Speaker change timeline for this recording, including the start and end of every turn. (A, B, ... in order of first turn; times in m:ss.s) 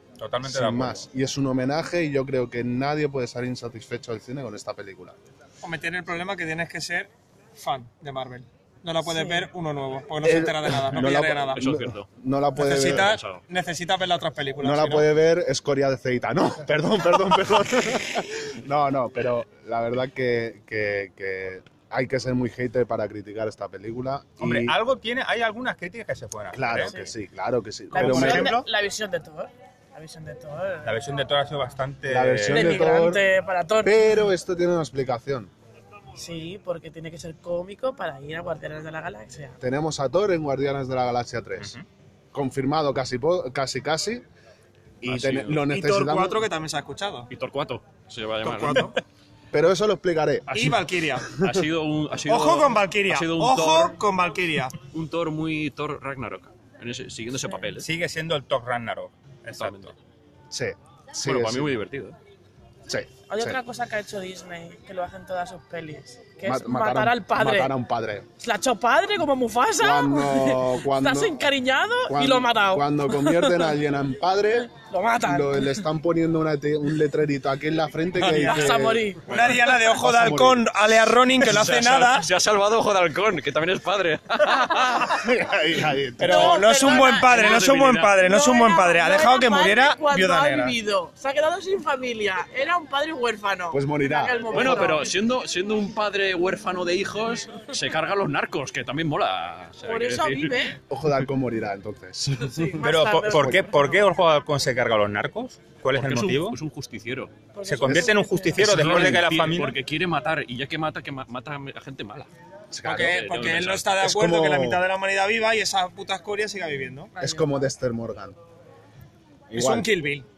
0:00.2-0:01.0 A
0:00.4-0:05.2 B
0:05.6-0:11.6 C
0:09.1-0:09.5 D
0:10.2-0:13.2 B
0:11.0-0:12.1 E
0:12.6-0:15.1 C
0:12.8-0:13.4 E
0:14.6-0:24.8 B
0:24.4-0:26.9 A
0:26.5-0:28.5 B
0:27.9-0:28.7 C
0:27.9-0:31.1 D
0:30.8-0:32.8 A
0:32.1-0:33.2 B
0:32.5-0:34.1 D
0:33.8-0:35.5 B
0:36.2-0:39.6 D
0:39.6-0:41.8 B
0:42.3-0:44.2 B
0:45.0-0:46.4 B
0:45.1-0:45.6 E
0:45.7-0:47.3 C
0:47.3-0:49.0 E
0:48.4-0:49.0 C
0:49.5-0:50.8 B
0:50.5-0:51.3 C
0:51.4-0:54.0 E
0:52.3-0:54.8 C
0:54.8-0:57.9 E
0:57.8-0:59.9 A
0:59.6-0:59.9 E
1:00.5-1:01.7 B
1:01.2-1:02.2 E
1:02.9-1:03.6 B
1:03.3-1:07.7 D
1:06.4-1:08.3 B
1:08.4-1:13.7 D
1:09.8-1:11.4 B
1:12.1-1:14.7 B
1:14.7-1:15.9 D
1:15.2-1:20.7 B
1:18.2-1:18.7 C
1:18.2-1:19.5 D
1:19.3-1:22.3 C
1:21.4-1:25.3 E
1:25.0-1:26.7 B
1:26.2-1:30.8 C
1:26.2-1:27.7 D
1:26.9-1:28.2 E
1:28.2-1:35.2 D
1:33.7-1:35.0 B
1:34.5-1:40.7 E
1:39.8-1:40.8 D
1:40.9-1:43.6 B
1:42.4-1:44.0 D
1:42.8-1:46.6 A
1:45.9-1:47.3 E
1:47.5-1:48.8 D
1:47.6-1:49.8 A
1:47.8-1:48.1 B
1:48.6-1:52.3 E
1:48.8-1:49.2 B
1:52.7-1:53.2 B
1:52.8-1:57.1 C
1:52.9-1:53.9 E
1:54.0-1:54.8 B
1:57.2-1:58.4 B
1:59.5-1:59.9 B
1:59.6-2:00.3 C